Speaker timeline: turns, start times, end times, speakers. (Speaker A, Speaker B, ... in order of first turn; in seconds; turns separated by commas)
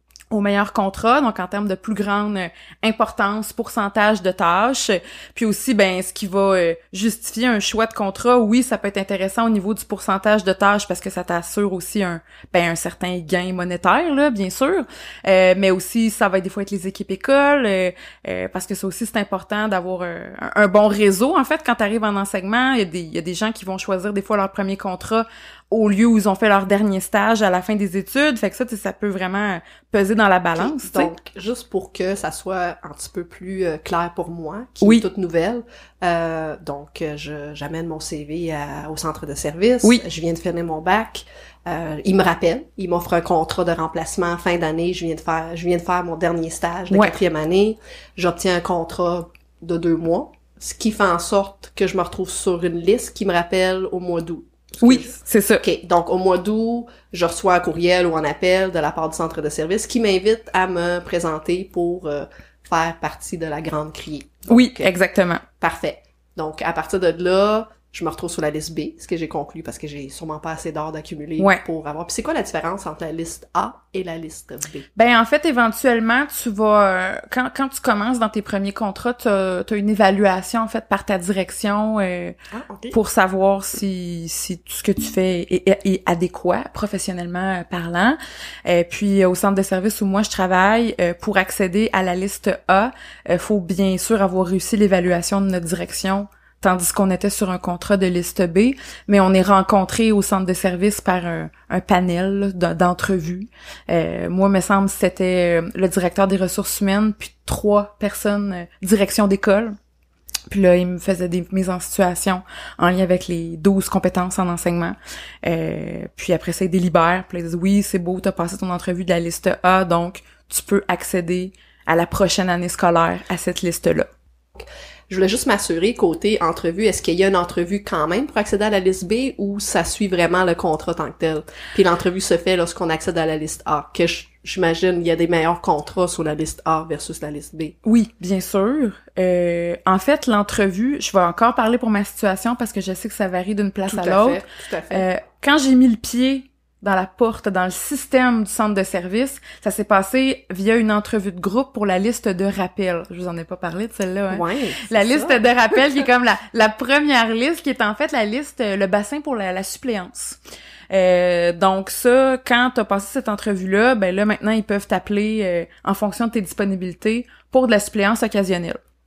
Speaker A: 0.3-31.1, Speaker B: 30.6-64.9, Speaker A: 46.9-47.2, Speaker A: 54.8-55.6, Speaker A: 64.5-65.4, Speaker B: 65.6-74.9, Speaker A: 71.4-71.6, Speaker A: 75.0-82.3, Speaker B: 82.5-83.0, Speaker A: 82.9-109.8, Speaker A: 110.5-124.1, Speaker B: 124.6-137.7, Speaker A: 137.8-160.4, Speaker B: 143.9-145.1, Speaker B: 154.3-155.4, Speaker A: 160.9-168.8